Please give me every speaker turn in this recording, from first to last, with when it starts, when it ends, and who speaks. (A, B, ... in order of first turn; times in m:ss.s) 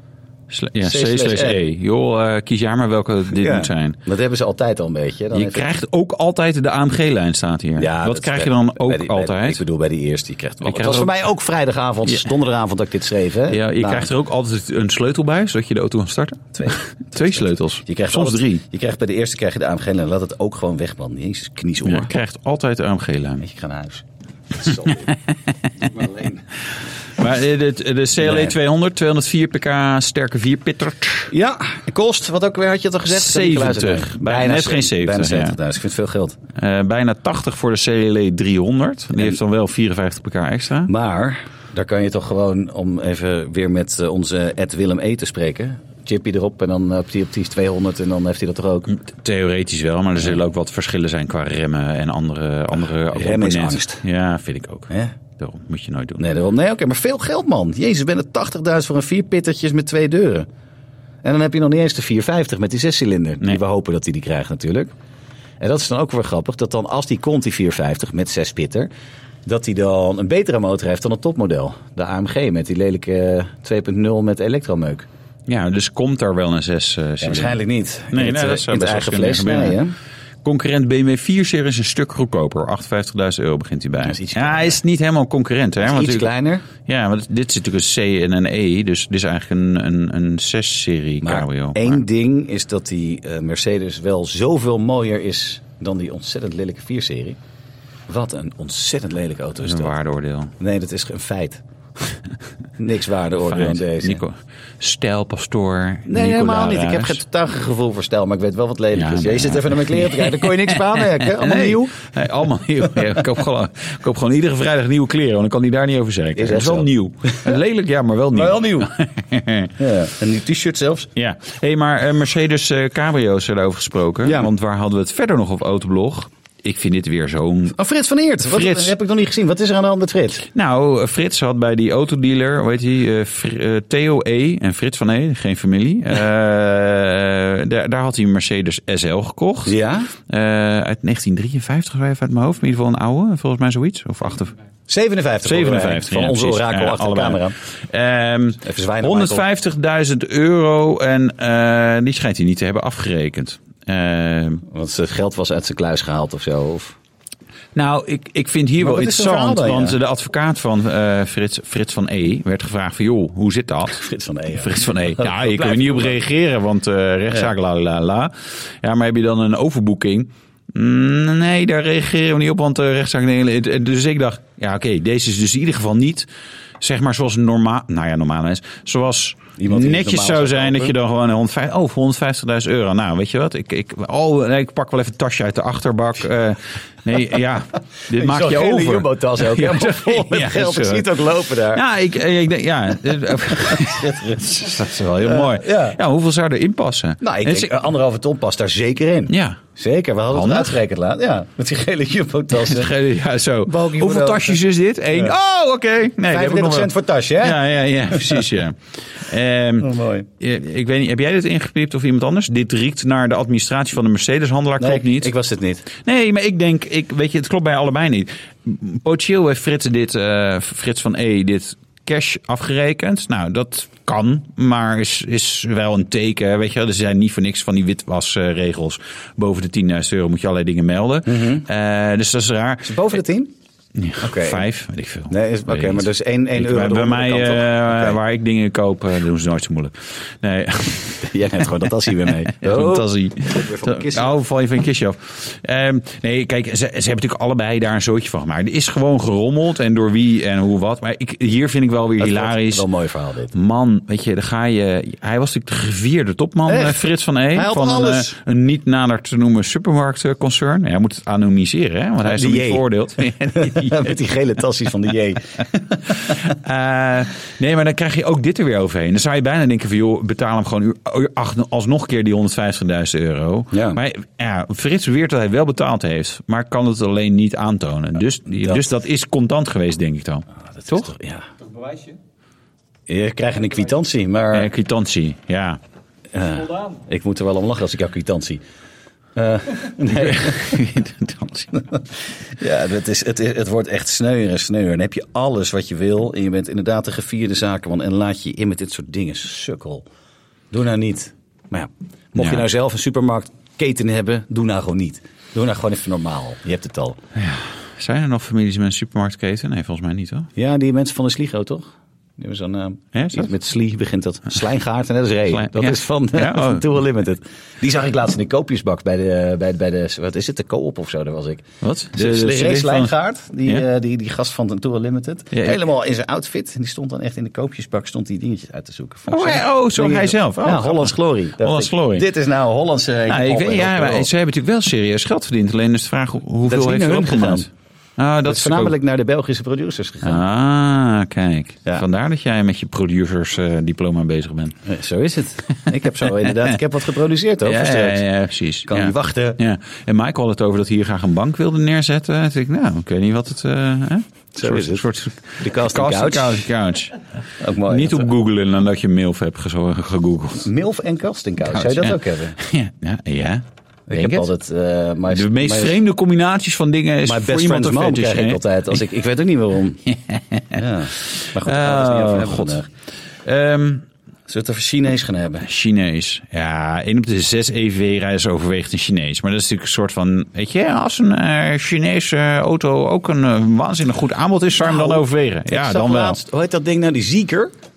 0:00.5-0:04.0 A
0:00.8-0:01.6 B
0:03.3-0:05.7 B
0:05.3-0:09.6 A
0:07.8-0:14.1 B
0:10.6-0:11.2 A
0:13.5-0:18.6 A
0:16.6-0:22.1 B
0:21.8-0:23.4 A
0:23.4-0:25.2 B
0:25.7-0:26.5 B
0:27.1-0:31.3 A
0:28.2-0:28.6 B
0:31.3-0:36.4 B
0:33.1-0:35.6 A
0:36.6-0:40.9 A
0:40.9-0:48.9 B
0:48.9-0:56.3 A
0:53.1-0:54.0 B
0:54.9-0:55.2 B
0:56.2-1:00.5 B
1:01.2-1:04.9 B
1:05.6-1:08.9 B
1:09.5-1:15.1 B
1:15.5-1:17.6 A
1:17.2-1:20.0 B
1:18.1-1:19.8 A
1:20.4-1:26.3 A
1:24.0-1:24.8 B
1:25.8-1:26.7 B
1:26.8-1:32.0 A
1:31.2-1:37.4 B
1:38.1-1:39.9 B
1:39.6-1:40.5 A
1:40.6-1:41.6 B
1:42.8-1:44.2 B
1:43.4-1:47.2 A
1:46.1-1:52.1 B
1:49.0-1:59.7 A
1:56.4-1:57.6 B
1:58.3-1:59.0 B
1:59.8-2:01.1 B
2:01.2-2:07.8 A
2:04.2-2:04.5 B
2:07.7-2:10.5 B
2:08.4-2:08.9 A
2:10.5-2:24.6 A
2:19.6-2:20.1 B
2:24.9-2:27.6 B
2:25.4-2:34.6 A
2:28.6-2:29.4 B
2:34.7-2:37.0 B
2:37.8-2:44.0 A
2:38.8-2:40.0 B
2:43.9-2:46.2 B
2:44.6-2:56.3 A
2:56.8-3:17.7 A
2:59.6-3:00.9 B
3:08.1-3:11.8 B
3:13.6-3:16.0 B
3:17.2-3:22.9 B
3:19.3-3:19.6 A
3:20.3-3:20.8 A
3:22.6-3:35.3 A
3:23.7-3:24.6 B
3:26.3-3:28.5 B
3:29.8-3:30.3 B
3:34.8-3:35.9 B
3:35.9-3:53.1 A
3:51.3-3:51.7 B
3:52.8-3:53.5 B
3:54.0-4:12.9 A
3:54.2-3:54.7 B
3:55.3-3:58.2 B
4:01.2-4:04.4 B
4:12.2-4:13.5 B
4:13.5-4:24.2 A
4:16.7-4:18.4 B
4:22.2-4:22.9 B
4:23.5-4:26.4 B
4:26.1-4:41.1 A
4:33.7-4:34.0 B
4:40.7-4:41.5 B
4:43.1-4:44.7 B
4:44.5-4:45.8 A
4:46.3-4:48.6 B
4:49.4-4:50.8 B
4:50.0-4:51.9 A
4:52.0-5:00.0 B
5:00.7-5:07.2 B
5:02.4-5:02.7 A
5:07.4-5:10.5 A
5:10.6-5:34.3 B
5:13.1-5:13.5 A
5:15.5-5:16.9 A
5:21.8-5:23.1 A
5:25.5-5:25.8 A
5:29.3-5:32.3 A
5:33.3-5:38.9 A
5:36.7-5:37.7 B
5:38.4-5:40.4 B
5:40.2-5:44.8 A
5:44.8-5:48.3 B
5:46.2-5:46.8 A
5:47.6-5:57.2 A
5:48.9-5:49.6 B
5:54.6-5:56.7 B
5:57.6-5:58.3 B
5:57.9-6:00.7 A
6:00.6-6:02.6 B
6:01.7-6:04.5 A
6:04.1-6:06.0 B
6:05.3-6:09.0 A
6:07.2-6:10.1 B
6:10.1-6:12.8 A
6:10.7-6:12.9 B
6:13.4-6:14.1 A
6:14.5-6:15.7 B
6:15.6-6:26.4 A
6:24.8-6:27.7 B